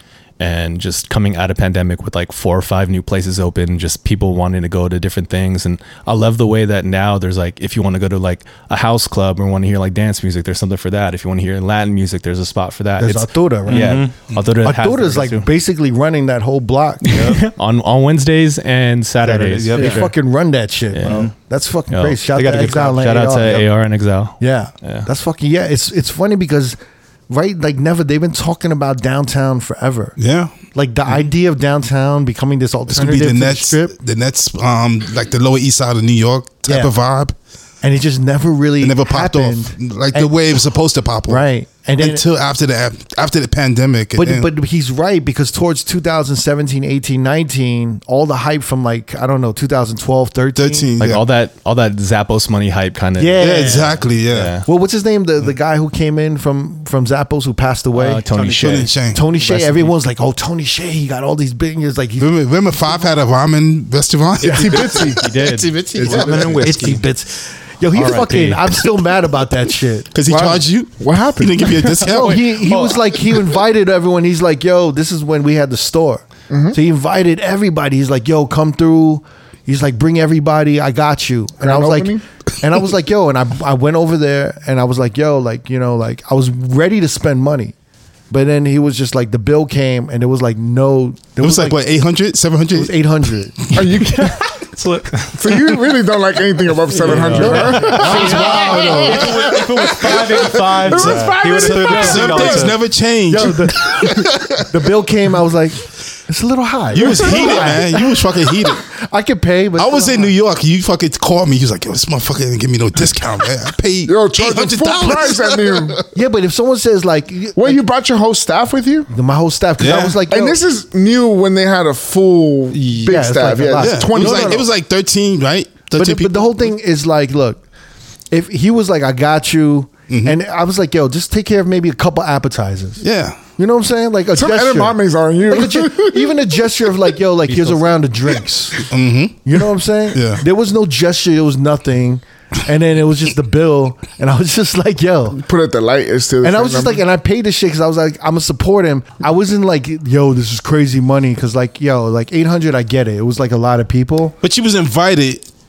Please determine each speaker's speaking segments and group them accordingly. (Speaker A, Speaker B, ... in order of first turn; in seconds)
Speaker A: 0.4-15.5, 17.0-20.1, 20.9-21.3, 21.9-25.1, 51.0-53.4, 54.3-54.7, 57.9-59.9, 65.0-66.2, 67.9-68.8, 72.5-73.0, 97.0-98.6, 137.5-137.8
Speaker B: 13.0-14.0, 14.6-17.4, 19.7-23.7, 24.4-26.8, 27.3-30.2, 30.7-33.9, 36.6-36.9, 37.8-40.3, 41.3-42.2, 44.1-50.9, 53.2-54.1, 54.6-58.2, 59.1-62.3, 64.4-65.1, 66.4-70.1, 72.0-87.7, 88.3-91.8, 92.7-93.8, 97.2-99.5, 101.9-102.2, 103.3-110.3, 116.1-117.8, 119.1-120.6, 123.1-124.7, 125.9-127.6, 128.3-133.0, 133.6-138.9, 139.4-145.4, 146.4-154.3
Speaker C: 13.7-14.1, 17.1-17.4, 19.2-20.1, 21.0-21.3, 22.3-23.0, 66.0-67.0, 94.7-95.7, 97.0-102.8, 122.7-123.2
Speaker D: 30.2-30.5, 32.9-37.3, 38.8-41.4, 42.0-44.5, 50.5-51.2, 53.4-54.5, 58.3-59.2, 62.2-65.5, 70.1-72.6, 91.4-93.8, 99.0-99.7, 100.8-104.2, 106.9-108.9, 109.8-116.0, 119.8-120.2, 123.8-126.6, 130.1-130.4, 133.0-133.4, 138.8-139.4, 140.1-140.4, 154.4-155.4
Speaker E: 64.4-66.7, 70.3-72.0, 76.5-76.8, 81.6-82.2, 93.7-94.6, 95.3-102.7, 114.0-116.0, 117.5-119.1, 120.3-124.6, 134.3-136.4, 145.3-147.0